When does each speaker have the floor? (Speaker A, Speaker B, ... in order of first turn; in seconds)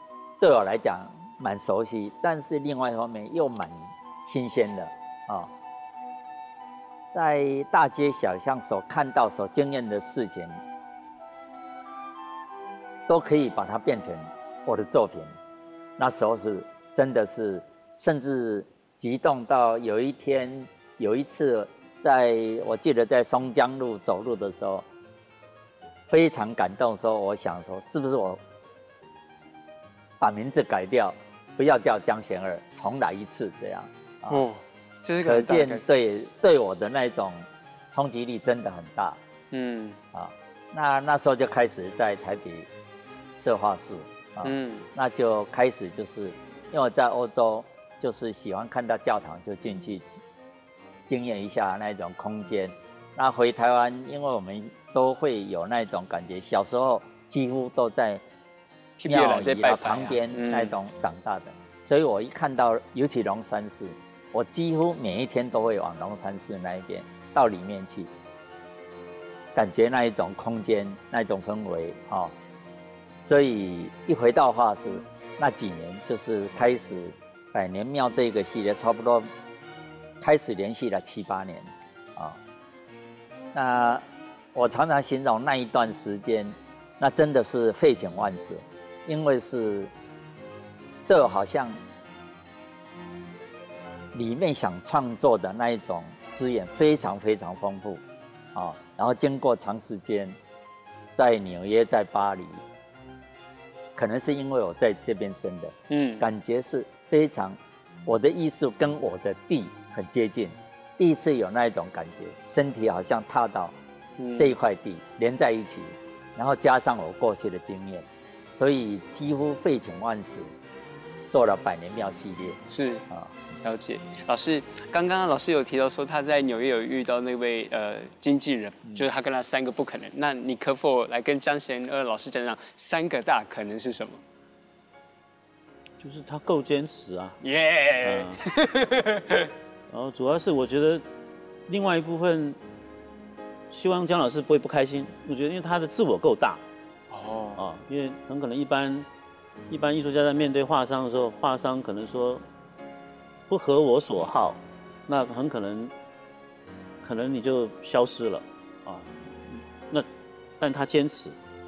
Speaker A: 0.4-5.5, 7.1-10.6, 13.1-15.3, 16.0-24.9, 26.1-28.4, 30.2-34.4, 35.2-39.2, 40.1-42.7, 43.4-50.2, 51.1-58.2, 59.0-68.1, 69.5-72.3, 73.2-79.3, 80.2-82.4, 83.5-89.9, 91.1-91.8, 94.1-98.0, 98.5-100.3, 101.1-102.6, 104.0-113.7, 114.4-120.5, 121.3-122.6
Speaker B: 34.3-35.8, 39.5-40.0, 44.4-44.9, 59.0-60.7, 105.9-106.2, 114.2-114.5, 122.7-123.0, 123.6-134.2, 137.4-139.5, 147.1-147.6
Speaker C: 136.0-137.4, 138.0-138.4, 139.9-141.0, 141.7-142.6, 143.7-146.6, 147.6-149.1, 149.7-152.4, 153.5-155.9, 157.0-160.1, 160.6-161.3